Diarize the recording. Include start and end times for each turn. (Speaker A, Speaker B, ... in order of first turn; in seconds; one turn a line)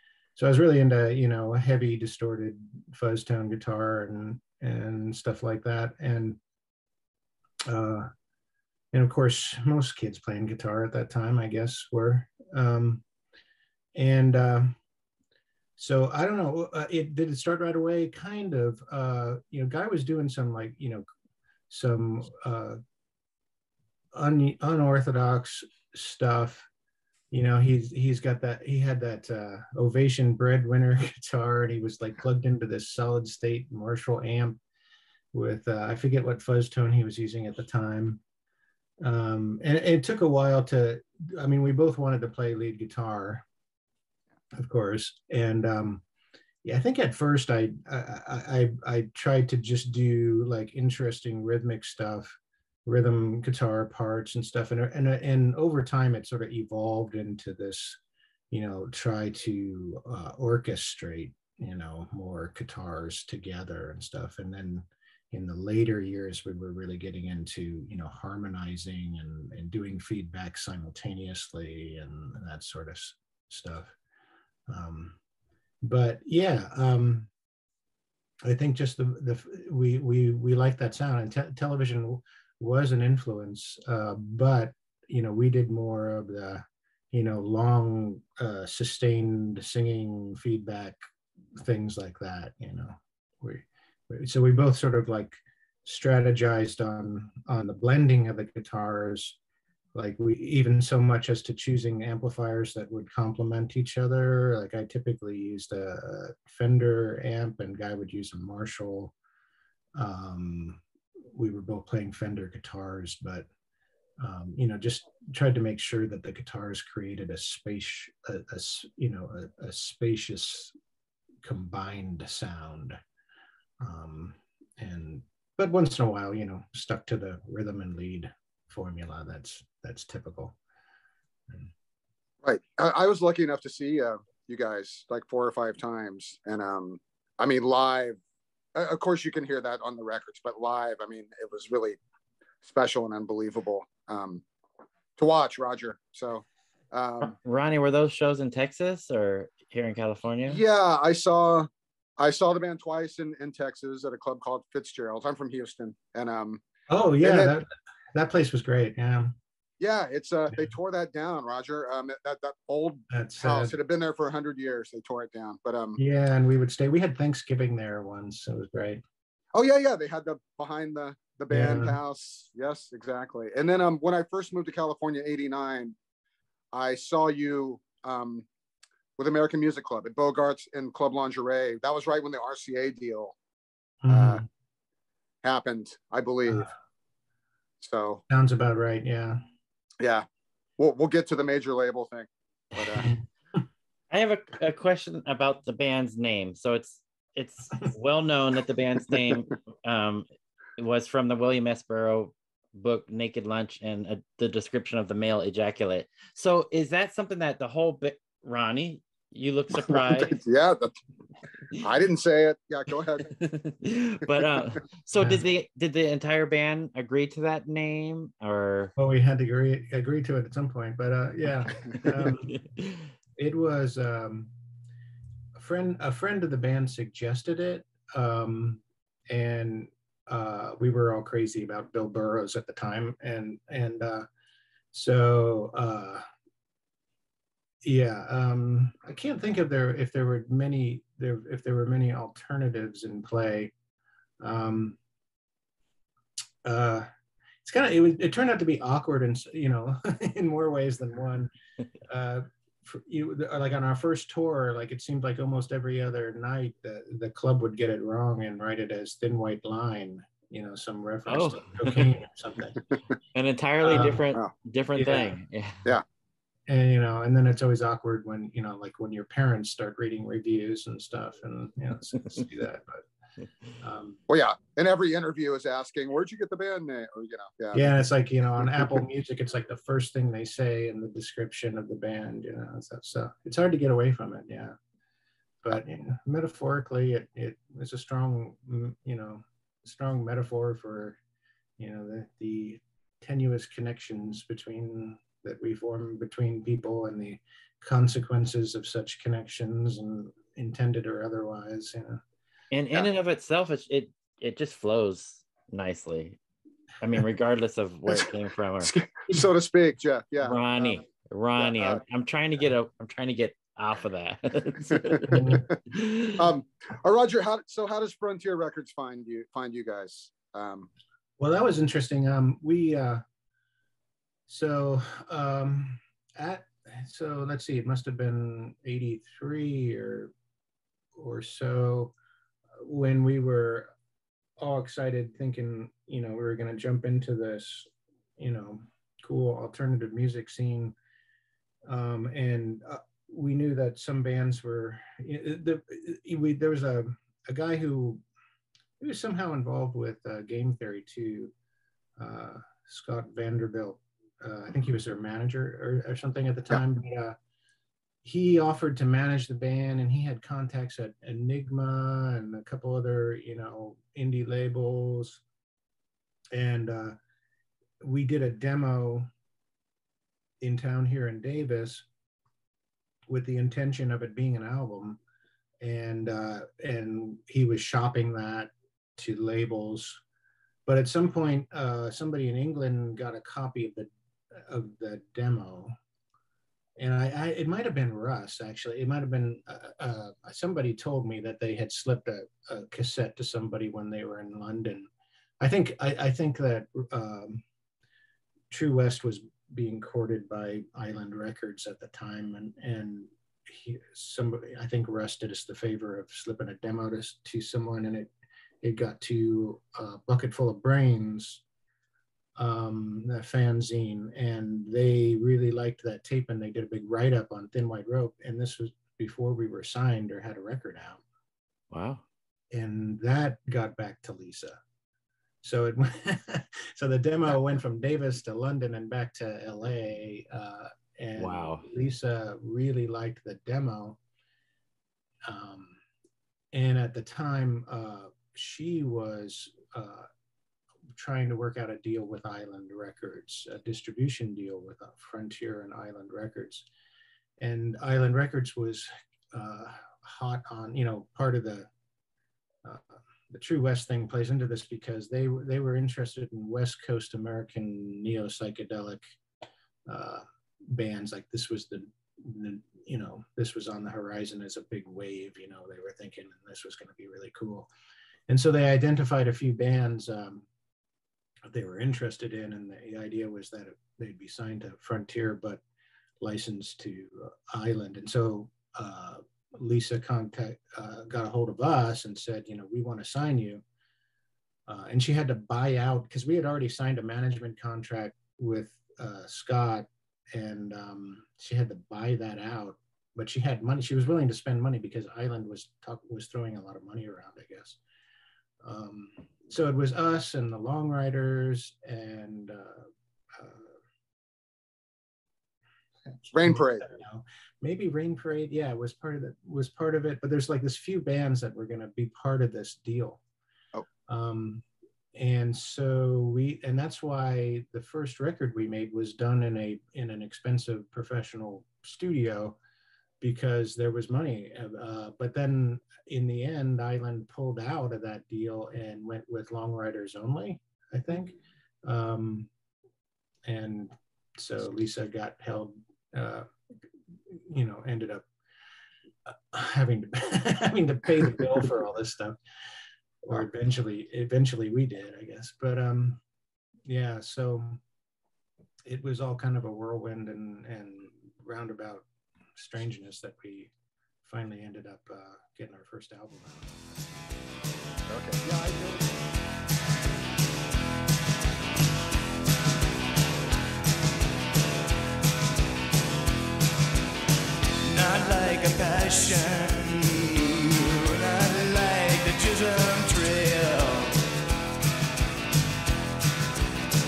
Speaker A: 0.4-6.4
Speaker A: 7.7-8.1
Speaker A: 8.9-13.0
Speaker A: 13.9-14.8
Speaker A: 15.8-21.1
Speaker A: 21.7-22.8
Speaker A: 24.1-26.7
Speaker A: 27.3-34.6
Speaker A: 35.3-38.2
Speaker A: 39.0-43.4
Speaker A: 44.5-46.0
Speaker A: 46.6-58.0
Speaker A: 58.5-73.9
Speaker A: 74.7-75.2
Speaker A: 75.8-77.3
Speaker A: 78.5-91.0
Speaker A: 91.6-99.4
Speaker A: 99.9-109.1
Speaker A: 110.0-110.8
Speaker A: 111.3-113.5
Speaker A: 114.2-120.8
Speaker A: 121.4-123.0
Speaker A: 123.8-130.6
Speaker B: 132.4-138.2
Speaker B: 138.8-142.0
Speaker B: 142.6-144.4
Speaker B: 145.2-147.3
Speaker C: 147.2-150.6
Speaker B: 150.5-156.6
Speaker A: 156.9-159.4
Speaker B: 157.2-157.5
Speaker B: 159.8-166.0
Speaker A: 163.1-163.8
Speaker A: 166.0-169.0
Speaker B: 169.5-175.9
Speaker A: 171.5-172.0
Speaker B: 176.7-178.5
Speaker B: 179.2-183.3
Speaker A: 184.0-184.5
Speaker B: 184.1-184.4
Speaker B: 185.4-186.7
Speaker B: 187.8-188.2
Speaker A: 188.3-189.4
Speaker B: 190.0-190.3
Speaker B: 190.8-193.1
Speaker C: 194.1-200.3
Speaker C: 200.8-210.4
Speaker B: 209.8-210.9
Speaker B: 211.8-213.3
Speaker C: 213.3-218.9
Speaker A: 215.2-215.4
Speaker A: 219.0-222.6
Speaker C: 222.5-223.1
Speaker A: 223.4-224.5
Speaker A: 225.6-234.3
Speaker A: 234.9-236.2
Speaker A: 237.8-243.7
Speaker A: 244.4-245.0
Speaker A: 246.6-247.1
Speaker A: 247.7-251.5
Speaker A: 252.1-262.8
Speaker C: 261.3-262.1
Speaker C: 263.3-265.9
Speaker A: 263.8-264.2
Speaker B: 264.0-264.5
Speaker A: 264.9-265.3
Speaker A: 266.7-273.0
Speaker A: 273.8-274.2
Speaker B: 274.3-277.8
Speaker A: 277.7-284.8
Speaker A: 285.6-291.2
Speaker A: 291.8-302.2
Speaker C: 302.7-306.4
Speaker C: 307.0-308.9
Speaker B: 308.8-311.0
Speaker C: 310.4-316.4
Speaker B: 311.6-312.0
Speaker B: 314.9-315.7
Speaker A: 315.3-315.7
Speaker B: 316.4-320.9
Speaker A: 321.4-323.2
Speaker A: 324.5-330.3
Speaker A: 331.2-332.1
Speaker A: 332.8-333.9
Speaker A: 334.6-340.9
Speaker A: 341.9-348.2
Speaker A: 349.0-351.5
Speaker A: 352.2-357.4
Speaker A: 358.2-365.4
Speaker A: 366.5-367.2
Speaker A: 368.0-369.3
Speaker A: 370.6-372.1
Speaker A: 373.3-375.2
Speaker A: 375.8-380.2
Speaker A: 380.9-385.9
Speaker A: 387.0-395.1
Speaker A: 395.6-397.6
Speaker A: 398.7-411.6
Speaker A: 412.6-421.2
Speaker C: 421.9-422.2
Speaker A: 422.7-424.8
Speaker A: 425.6-434.2
Speaker C: 431.4-431.9
Speaker A: 435.5-436.0
Speaker A: 436.7-440.3
Speaker A: 441.1-446.9
Speaker A: 447.6-451.9
Speaker A: 452.8-459.2
Speaker A: 460.1-467.9
Speaker A: 468.5-470.7
Speaker A: 471.7-475.8
Speaker A: 476.4-483.8
Speaker A: 484.9-498.0
Speaker A: 498.8-503.9
Speaker A: 506.4-513.4
Speaker B: 506.5-507.1
Speaker A: 514.3-514.8
Speaker A: 515.4-522.8
Speaker A: 523.4-532.7
Speaker A: 533.7-536.7
Speaker A: 537.5-538.5
Speaker A: 539.5-542.6
Speaker A: 543.4-546.4
Speaker A: 547.1-548.0
Speaker A: 549.0-553.9
Speaker A: 554.4-557.1
Speaker B: 558.3-559.3
Speaker D: 568.0-574.4